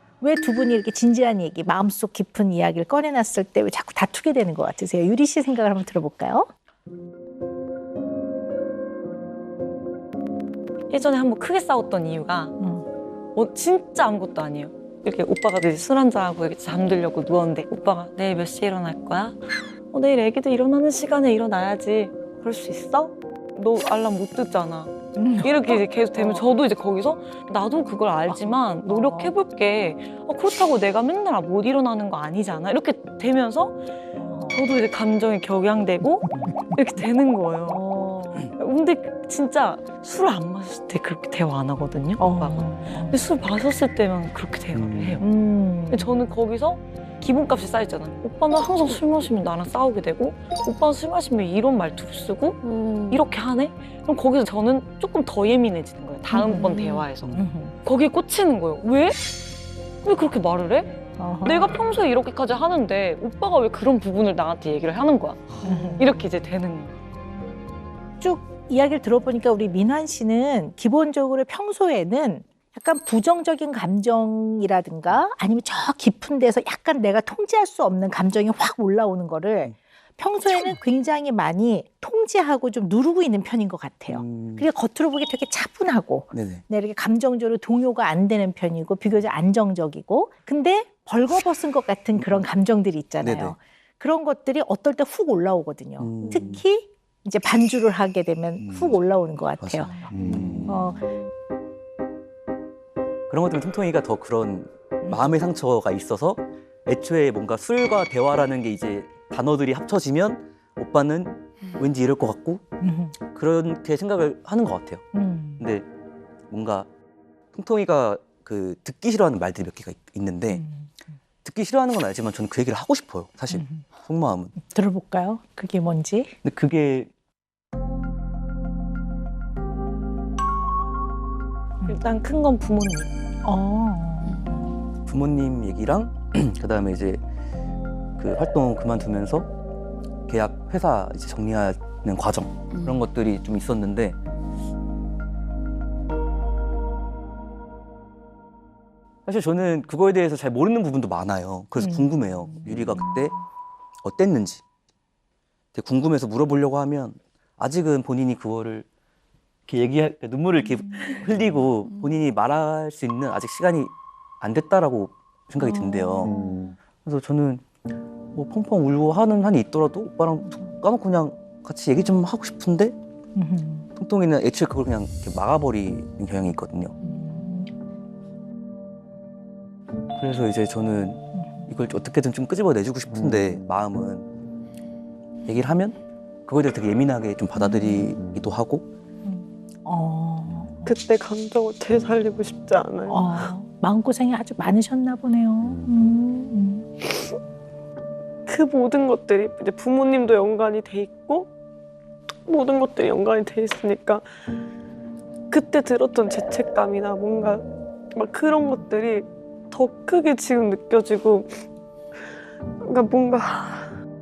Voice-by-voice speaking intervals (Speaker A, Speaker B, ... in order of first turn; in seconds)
Speaker A: 0.2-6.5, 12.6-12.9, 25.2-26.4, 28.3-29.3, 34.2-34.6, 37.6-38.5, 42.2-43.2, 45.2-46.1, 56.3-57.8, 61.2-61.8, 65.6-66.3, 68.2-100.1, 100.7-101.0, 112.8-113.2, 115.1-115.7, 120.5-121.0, 123.5-123.9, 124.6-126.3, 133.4-134.7, 151.8-153.4, 160.8-161.1, 165.6-166.7, 173.3-173.9, 177.0-177.7, 181.3-181.7, 189.2-190.9, 193.1-196.9
Speaker B: 10.9-12.6, 13.3-33.8, 34.5-37.9, 38.5-45.2, 45.9-59.2, 60.0-67.0, 131.8-133.1, 142.7-143.0, 192.5-192.7, 198.5-199.7, 206.5-207.6, 208.5-209.2
Speaker C: 44.8-45.2, 84.1-84.7, 86.3-86.6, 92.2-92.4, 93.2-93.6, 96.0-96.6, 98.6-99.0, 99.6-100.8, 103.3-112.6, 113.3-115.0, 115.6-115.9, 116.5-116.9, 117.5-120.6, 121.4-124.5, 126.4-127.1, 135.1-137.2, 138.2-139.5, 140.3-144.2, 149.3-153.3, 154.0-154.6, 155.7-158.9, 159.7-166.3, 167.0-167.7, 168.3-172.9, 174.0-176.9, 180.2-184.3, 185.4-188.9
Speaker D: 52.6-53.3, 190.9-193.3, 198.5-201.5, 202.5-204.2, 205.5-207.6, 208.2-209.2, 209.7-211.2, 212.8-213.9